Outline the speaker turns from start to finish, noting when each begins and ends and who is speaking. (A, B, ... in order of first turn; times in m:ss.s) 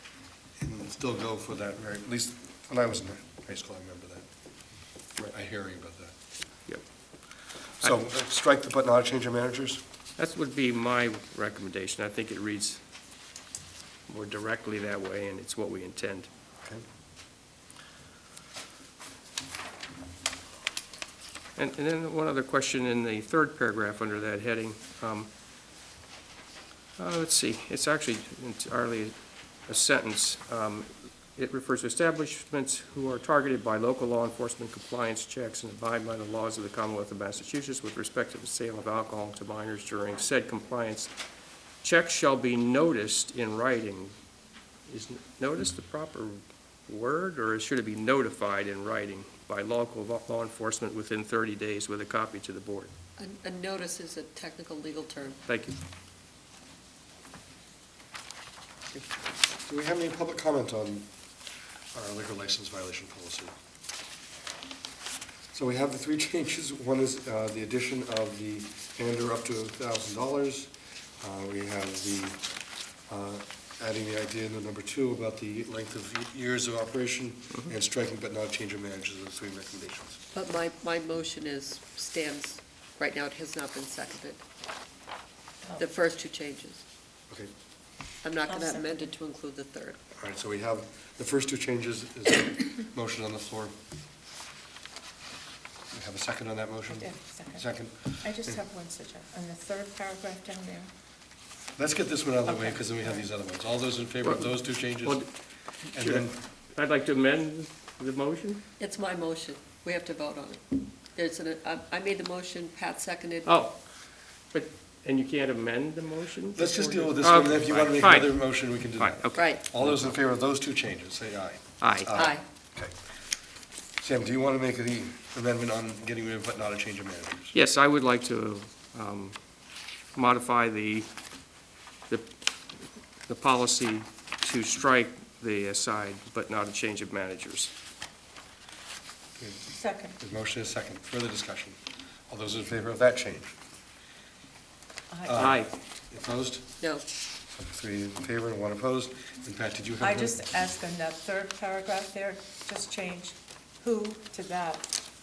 0:00.6-0:04.3 A
0:05.3-0:06.1 A
0:07.8-0:09.8 A
0:10.2-0:12.8 B
0:14.1-0:16.3 B
0:21.6-0:25.3 B
0:27.0-0:29.2 B
0:29.7-0:41.1 B
0:41.8-0:44.1 B
0:44.9-0:52.9 B
0:53.2-0:55.4 C
0:55.5-0:55.8 B
0:59.7-1:01.1 A
1:01.9-1:03.5 A
1:05.5-1:12.4 A
1:13.1-1:20.2 A
1:20.3-1:24.4 C
1:25.8-1:26.8 C
1:28.2-1:30.0 C
1:28.5-1:29.1 D
1:30.2-1:33.7 A
1:35.9-1:38.6 A
1:36.9-1:37.6 D
1:38.2-1:40.9 D
1:41.8-1:45.2 A
1:42.5-1:43.3 D
1:45.0-1:45.3 B
1:45.9-1:46.4 A
1:45.9-1:48.6 B
1:48.8-1:50.6 C
1:51.1-1:53.5 C
1:53.4-1:53.8 B
1:54.5-2:00.1 B
1:56.6-2:02.9 A
1:59.4-1:59.6 C
2:01.8-2:02.3 B
2:02.2-2:02.4 C
2:04.0-2:07.6 A
2:07.5-2:09.4 B
2:10.2-2:11.1 B
2:13.3-2:17.7 B
2:19.4-2:19.6 A
2:19.7-2:20.2 D
2:20.2-2:21.8 A
2:22.3-2:23.6 A
2:25.1-2:25.5 D
2:25.3-2:26.7 A
2:25.4-2:25.7 B
2:27.6-2:30.4 A
2:30.0-2:34.9 D